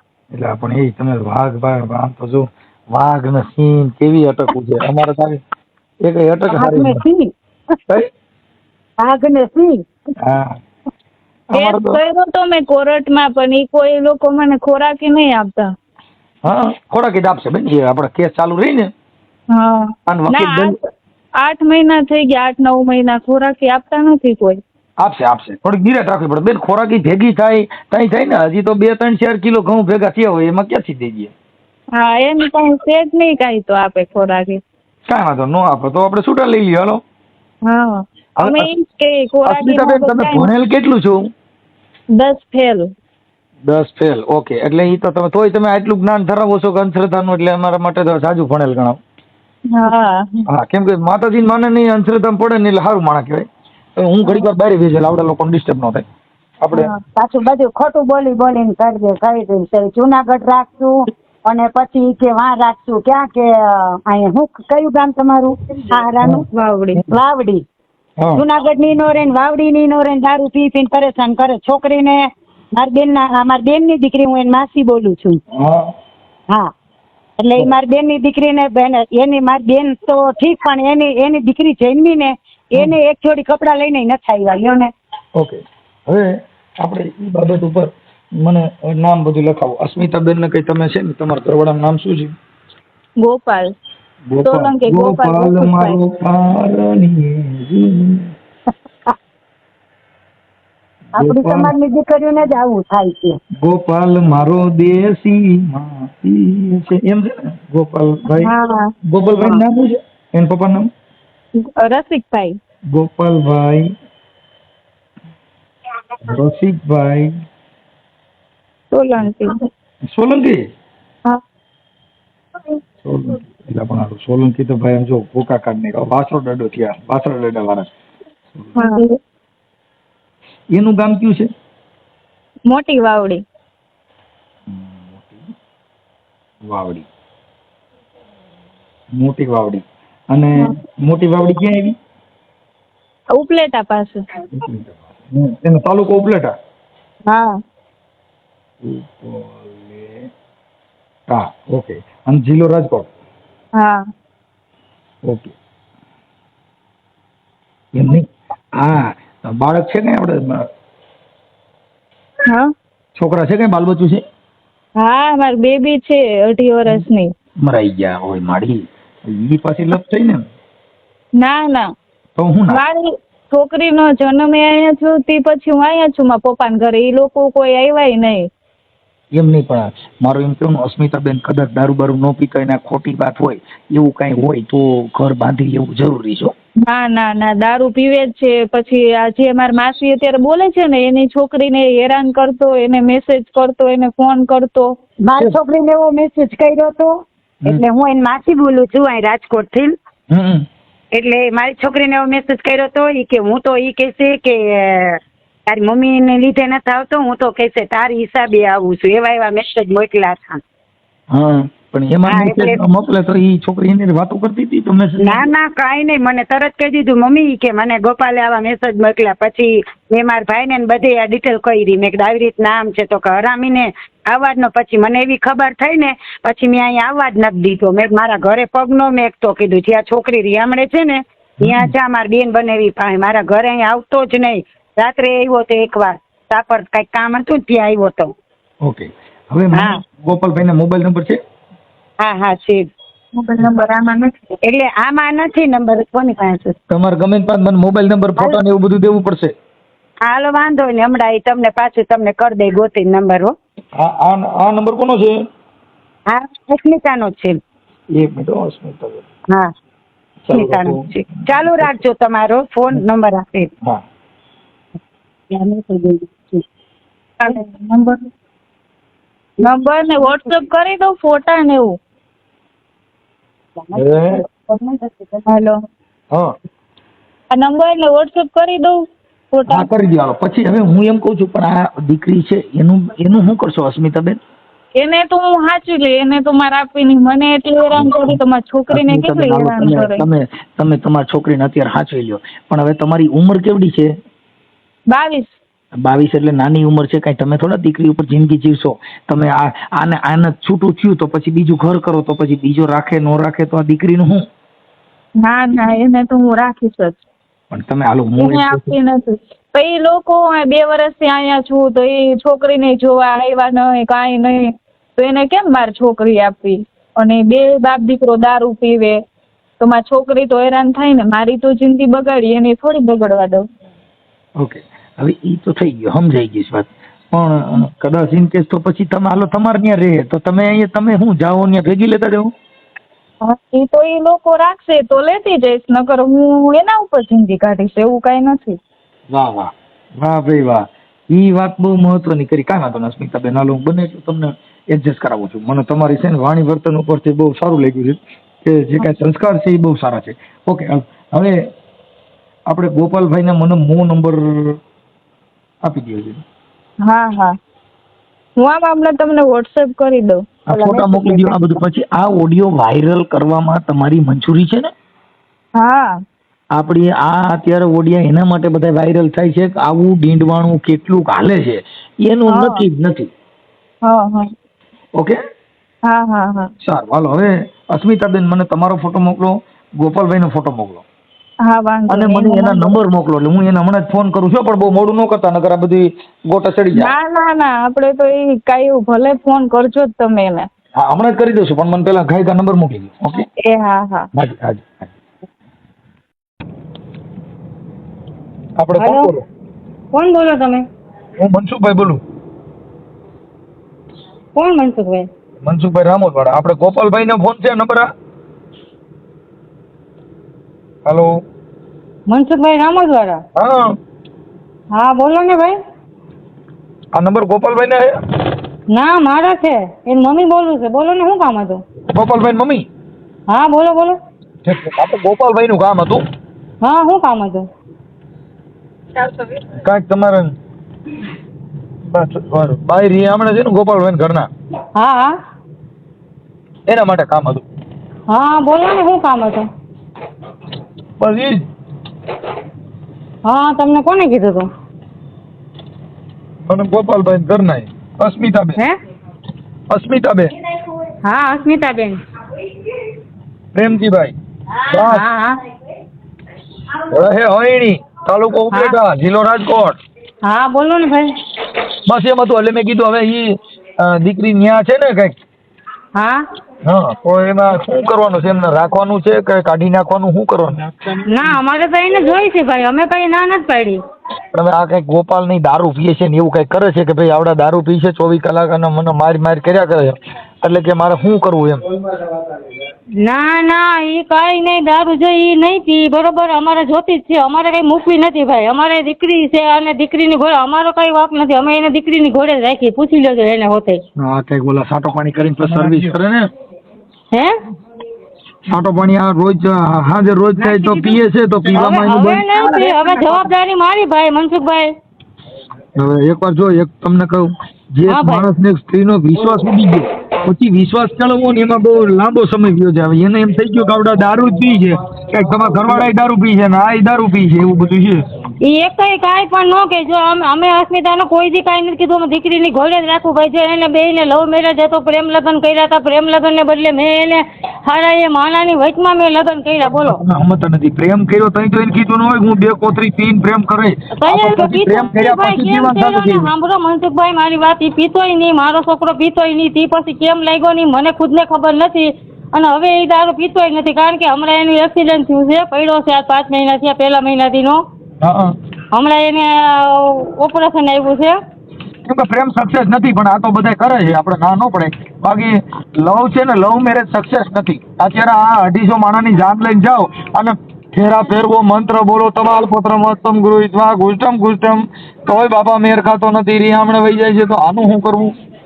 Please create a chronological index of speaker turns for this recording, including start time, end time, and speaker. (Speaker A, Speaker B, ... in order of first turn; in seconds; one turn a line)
Speaker A: 0.3-5.4
Speaker A: 6.0-7.0
Speaker B: 6.5-7.8
Speaker B: 9.0-9.8
Speaker A: 10.2-10.6
Speaker A: 11.5-12.0
Speaker C: 11.6-15.7
Speaker A: 16.4-18.9
Speaker C: 19.5-20.9
Speaker A: 20.1-20.8
Speaker C: 21.4-24.6
Speaker A: 25.0-31.3
Speaker C: 31.9-34.6
Speaker A: 35.1-37.0
Speaker C: 37.7-40.5
Speaker A: 38.4-38.7
Speaker A: 39.5-41.2
Speaker C: 42.2-42.9
Speaker A: 43.6-49.0
Speaker C: 49.7-50.5
Speaker A: 50.5-56.0
Speaker A: 56.6-56.9
Speaker C: 56.7-57.0
Speaker B: 57.2-66.5
Speaker C: 66.5-67.0
Speaker B: 67.1-67.6
Speaker B: 68.4-72.2
Speaker B: 72.8-75.4
Speaker A: 75.5-75.9
Speaker B: 77.4-84.9
Speaker A: 85.4-92.3
Speaker C: 93.2-93.7
Speaker A: 94.3-98.3
Speaker C: 94.4-96.0
Speaker A: 101.2-101.7
Speaker B: 101.2-103.4
Speaker A: 103.6-108.5
Speaker C: 108.3-108.9
Speaker A: 109.0-110.9
Speaker C: 111.8-112.6
Speaker A: 112.9-113.9
Speaker A: 116.2-117.3
Speaker C: 118.9-119.5
Speaker A: 120.1-120.6
Speaker A: 123.0-127.9
Speaker C: 128.8-129.1
Speaker A: 130.7-131.5
Speaker C: 132.7-133.4
Speaker A: 134.7-135.5
Speaker A: 136.6-137.1
Speaker A: 139.2-142.0
Speaker C: 143.4-144.2
Speaker A: 144.5-146.5
Speaker C: 147.3-147.6
Speaker A: 148.8-150.3
Speaker A: 151.3-153.1
Speaker A: 155.3-155.5
Speaker A: 157.9-160.7
Speaker C: 162.5-162.7
Speaker A: 163.2-164.2
Speaker C: 165.0-167.3
Speaker A: 167.6-170.5
Speaker C: 171.4-171.9
Speaker A: 172.4-172.8
Speaker C: 172.7-178.5
Speaker A: 179.3-186.5
Speaker C: 186.9-194.9
Speaker B: 195.2-199.9
Speaker A: 200.3-200.7
Speaker B: 201.1-210.6
Speaker A: 211.3-215.5
Speaker B: 212.3-212.8
Speaker B: 215.2-238.3
Speaker A: 231.6-231.9
Speaker A: 238.8-241.4
Speaker B: 242.2-242.9
Speaker C: 243.3-244.3
Speaker B: 244.7-246.8
Speaker A: 246.9-249.5
Speaker B: 250.2-253.6
Speaker A: 254.0-255.4
Speaker B: 256.3-257.6
Speaker A: 258.2-259.2
Speaker A: 260.5-261.9
Speaker B: 260.5-263.7
Speaker B: 265.5-266.6
Speaker C: 267.4-268.3
Speaker C: 269.6-272.0
Speaker B: 273.8-275.5
Speaker A: 273.9-274.4
Speaker C: 275.5-275.8
Speaker C: 277.5-279.9
Speaker A: 279.7-284.4
Speaker C: 285.0-290.2
Speaker A: 287.9-288.4
Speaker A: 288.9-294.1
Speaker C: 295.1-295.6
Speaker A: 295.9-304.5
Speaker C: 305.4-307.2
Speaker A: 307.7-308.9
Speaker C: 308.4-319.2
Speaker C: 319.8-323.7
Speaker A: 324.6-332.5
Speaker C: 333.4-338.8
Speaker A: 339.3-351.6
Speaker A: 352.7-354.8
Speaker A: 355.8-356.4
Speaker C: 357.1-357.6
Speaker C: 358.6-360.4
Speaker A: 360.7-364.9
Speaker B: 360.7-361.6
Speaker C: 365.8-366.1
Speaker A: 366.8-373.3
Speaker C: 372.5-372.8
Speaker C: 374.1-374.5
Speaker C: 376.1-376.7
Speaker A: 376.8-381.1
Speaker C: 381.6-383.0
Speaker A: 382.1-387.1
Speaker C: 386.9-390.7
Speaker A: 391.0-393.5
Speaker C: 393.6-394.3
Speaker A: 394.4-395.1
Speaker A: 398.8-399.5
Speaker D: 399.0-399.3
Speaker D: 400.1-400.8
Speaker A: 401.4-402.2
Speaker D: 404.6-405.3
Speaker A: 405.6-408.1
Speaker A: 411.1-411.3
Speaker D: 412.3-413.4
Speaker A: 413.6-414.0
Speaker D: 414.9-415.8
Speaker A: 417.2-418.1
Speaker D: 418.9-421.8
Speaker A: 422.1-422.9
Speaker D: 423.5-424.2
Speaker A: 424.6-426.2
Speaker D: 426.8-427.7
Speaker A: 429.8-430.5
Speaker A: 432.1-434.5
Speaker D: 435.0-435.4
Speaker A: 436.9-437.6
Speaker D: 438.3-439.7
Speaker A: 441.2-441.7
Speaker D: 443.4-444.7
Speaker A: 446.6-448.8
Speaker A: 449.9-450.5
Speaker D: 451.2-452.2
Speaker A: 453.7-454.4
Speaker D: 454.9-455.6
Speaker A: 454.9-455.3
Speaker A: 457.1-460.0
Speaker D: 458.7-459.0
Speaker D: 460.4-461.3
Speaker A: 462.1-465.4
Speaker D: 466.2-466.5
Speaker A: 466.9-470.9
Speaker D: 471.2-474.0
Speaker A: 474.5-481.9
Speaker D: 483.2-494.0
Speaker A: 494.2-496.5
Speaker A: 498.7-503.0
Speaker D: 501.7-504.9
Speaker A: 506.0-518.2
Speaker D: 508.1-508.5
Speaker D: 518.6-530.2
Speaker A: 530.0-536.5
Speaker D: 534.2-547.8
Speaker A: 548.2-548.5
Speaker D: 548.9-551.4
Speaker A: 552.1-568.3